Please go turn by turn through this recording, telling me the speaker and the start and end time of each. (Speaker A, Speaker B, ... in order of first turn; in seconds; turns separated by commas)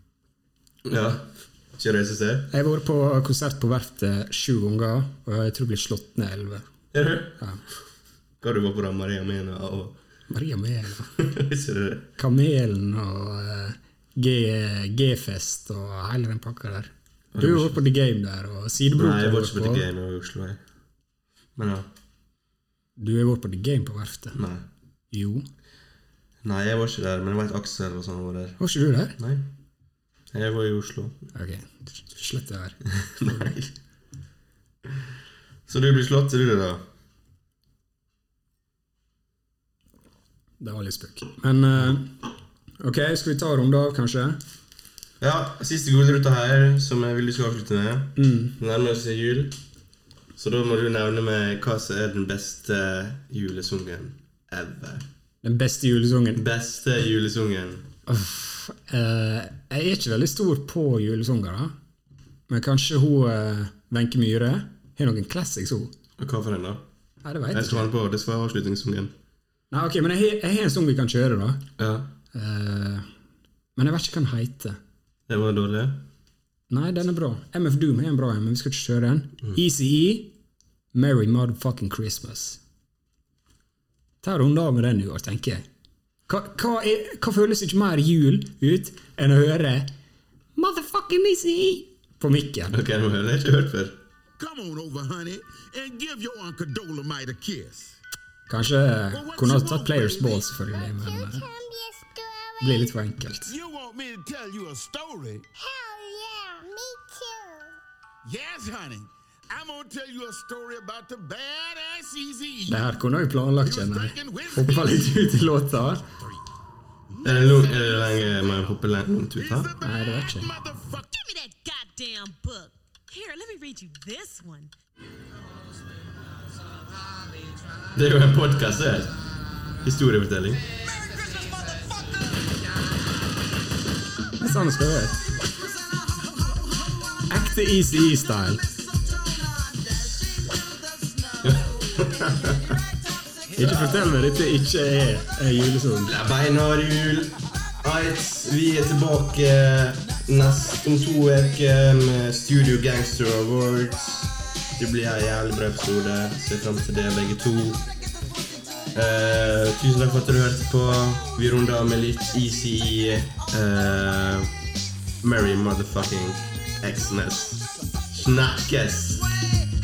Speaker A: 0.8-2.5, Speaker B: 2.5-6.7, Speaker A: 6.9-7.4, Speaker A: 8.4-10.0, Speaker B: 10.3-11.1, Speaker A: 11.2-12.1, Speaker B: 12.2-19.9, Speaker A: 17.3-17.8, Speaker A: 18.9-20.6, Speaker A: 21.6-21.9, Speaker B: 23.0-24.4, Speaker A: 24.4-24.7, Speaker B: 25.1-25.4, Speaker A: 26.4-28.6, Speaker B: 28.6-29.2, Speaker A: 29.2-29.5, Speaker A: 30.3-31.2, Speaker B: 31.3-33.6, Speaker A: 33.0-33.7, Speaker A: 35.7-36.8, Speaker B: 40.6-42.2, Speaker B: 42.8-44.4, Speaker A: 45.2-49.6, Speaker B: 48.2-48.5, Speaker A: 50.4-55.1, Speaker B: 55.4-56.4, Speaker A: 56.4-57.9, Speaker B: 58.1-61.7, Speaker B: 62.5-65.9, Speaker A: 66.2-66.8, Speaker B: 67.2-67.9, Speaker A: 67.5-69.1, Speaker B: 69.7-71.6, Speaker A: 71.8-72.1, Speaker B: 72.3-73.1, Speaker B: 73.8-74.8, Speaker A: 75.3-76.0, Speaker B: 76.7-80.3, Speaker B: 80.9-82.6, Speaker B: 84.2-85.7, Speaker B: 86.3-89.9, Speaker B: 90.6-92.8, Speaker A: 92.7-94.0, Speaker C: 94.4-98.0, Speaker B: 98.5-101.5, Speaker C: 99.1-100.5, Speaker D: 101.6-102.5, Speaker B: 102.6-103.5, Speaker C: 103.5-105.5, Speaker D: 105.7-107.6, Speaker C: 108.2-112.9, Speaker B: 112.7-116.1, Speaker C: 113.6-115.3, Speaker C: 117.1-118.6, Speaker A: 117.2-119.7, Speaker C: 119.4-121.2, Speaker B: 119.8-120.5, Speaker E: 121.1-124.7, Speaker A: 127.9-129.2, Speaker A: 129.8-130.6, Speaker C: 131.0-132.2, Speaker B: 134.4-135.4, Speaker C: 136.4-137.0, Speaker B: 137.3-138.6, Speaker E: 139.5-139.9, Speaker A: 141.4-142.6, Speaker B: 143.6-146.2, Speaker A: 143.6-144.0, Speaker A: 146.0-157.8, Speaker A: 158.9-164.5, Speaker A: 165.2-167.6, Speaker A: 168.1-169.4